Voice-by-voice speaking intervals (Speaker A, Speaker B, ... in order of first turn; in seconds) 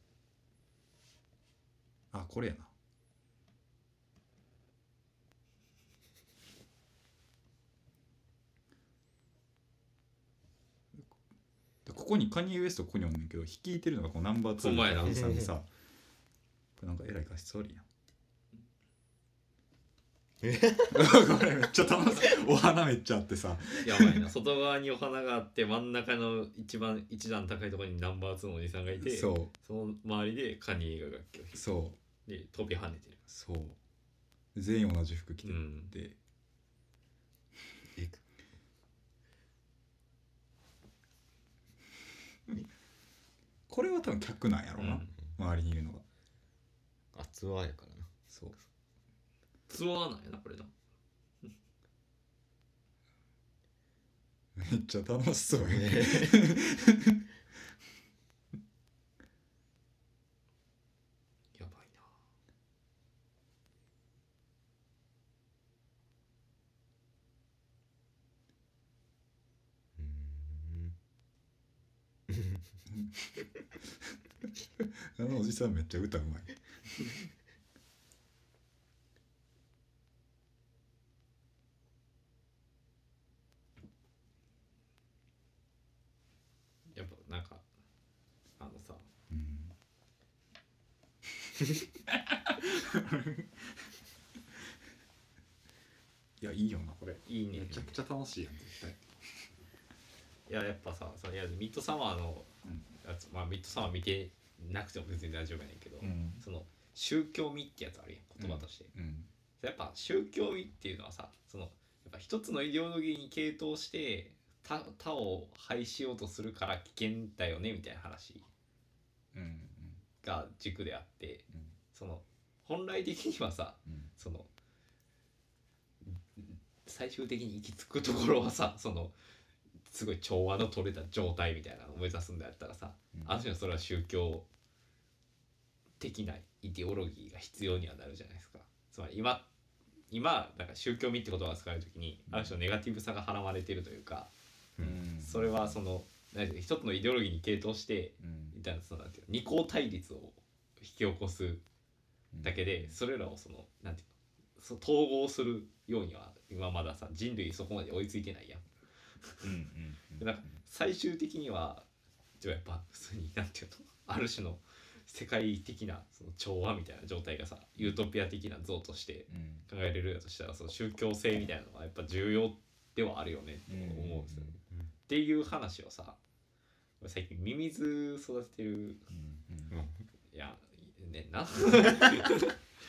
Speaker A: 2.1-2.7, 11.8-15.7, 16.8-17.9, 20.9-24.3, 28.9-29.5, 31.5-32.0, 33.3-33.8, 34.5-36.2, 43.7-46.0, 48.3-48.6, 54.6-57.2, 72.9-77.2, 89.3-89.7, 92.1-93.9, 96.4-99.1, 102.7-102.9, 106.0-106.4, 108.4-109.3, 119.3-120.0, 121.5-121.8, 123.8-124.1, 133.1-133.4, 142.3-142.6, 144.8-145.8, 148.2-148.6, 152.3-152.9, 159.4-160.6, 169.3-169.7, 173.7-174.5, 179.1-179.7
Speaker B: 14.6-15.4, 23.8-31.7, 32.2-33.2, 35.4-35.9, 44.8-45.1, 49.7-50.7, 61.5-62.1, 86.9-87.6, 88.6-89.0, 97.2-98.0, 100.5-102.5, 103.0-108.9, 109.6-118.5, 120.2-124.5, 126.0-129.2, 129.8-134.4, 136.0-139.5, 140.1-144.3, 145.2-151.6, 152.4-158.7, 160.2-161.9, 162.4-176.2, 177.0-179.0, 180.3-182.6
Speaker C: 15.0-15.5, 20.4-21.1, 37.9-38.2, 47.1-48.1, 55.6-56.6, 70.0-70.9, 72.3-72.6, 179.7-180.1